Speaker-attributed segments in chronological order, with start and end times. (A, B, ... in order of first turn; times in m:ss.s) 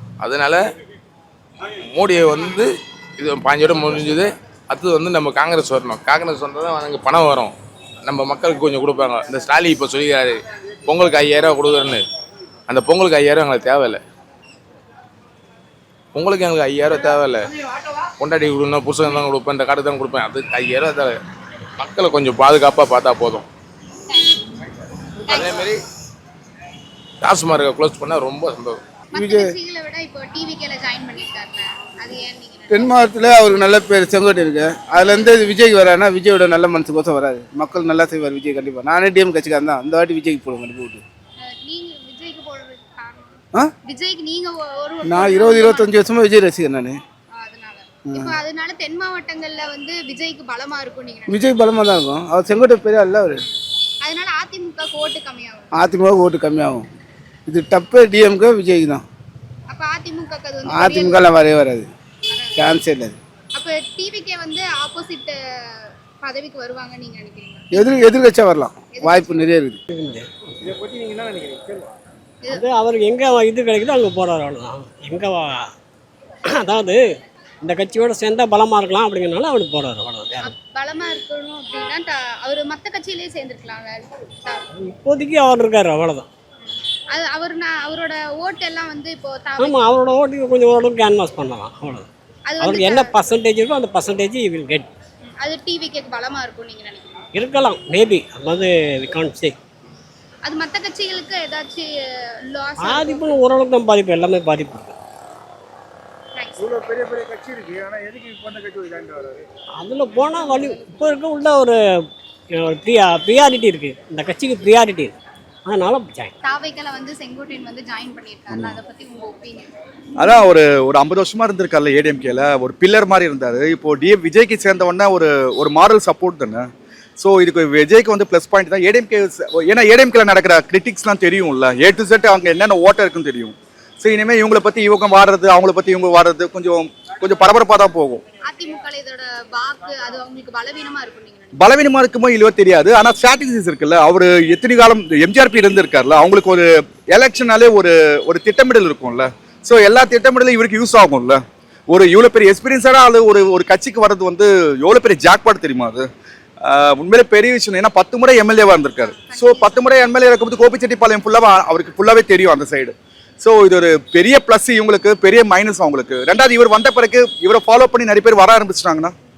0:00.2-0:00.6 A
0:01.9-0:12.0 A
0:12.7-0:14.0 A
0:16.1-0:17.4 A
0:18.2-0:21.2 A
0:21.8-0:23.4 A
0:24.1-0:24.4 B
0:25.3-0:25.6 B
0:25.3-0:25.8 A
0:27.2-0:28.8 A
0:29.1-0:33.0 B
0:29.2-0:29.5 C
0:32.7-0:41.0 C
0:35.0-0:35.3 B
0:41.4-0:46.0 B
0:45.0-0:47.0 C
0:47.3-0:51.5 B
0:51.3-0:53.4 C
0:54.0-0:55.7 B
0:55.7-0:56.9 C
0:57.5-0:59.0 C
0:59.7-1:01.2 B
1:00.7-1:01.9 C
1:02.2-1:02.7 B
1:02.6-1:03.2 C
1:03.5-1:07.9 B
1:07.7-1:09.8 C
1:08.9-1:09.5 B
1:09.9-1:10.3 D
1:12.5-1:15.7 D
1:16.5-1:20.5 D
1:20.4-1:24.6 B
1:24.8-1:26.3 D
1:26.6-1:29.9 B
1:29.6-1:32.1 D
1:32.5-1:33.1 B
1:32.6-1:34.9 D
1:35.4-1:37.2 B
1:37.3-1:39.6 D
1:40.4-1:41.8 B
1:42.5-1:43.4 B
1:42.8-1:44.9 D
1:46.3-1:47.1 B
1:49.8-1:52.0 D
1:52.5-1:55.1 D
1:55.6-1:56.3 D
1:56.4-1:59.7 B
2:00.2-2:18.2 E
2:18.4-2:21.5 B
2:21.5-2:36.1 E
2:36.6-2:49.1 E
2:39.0-2:39.9 B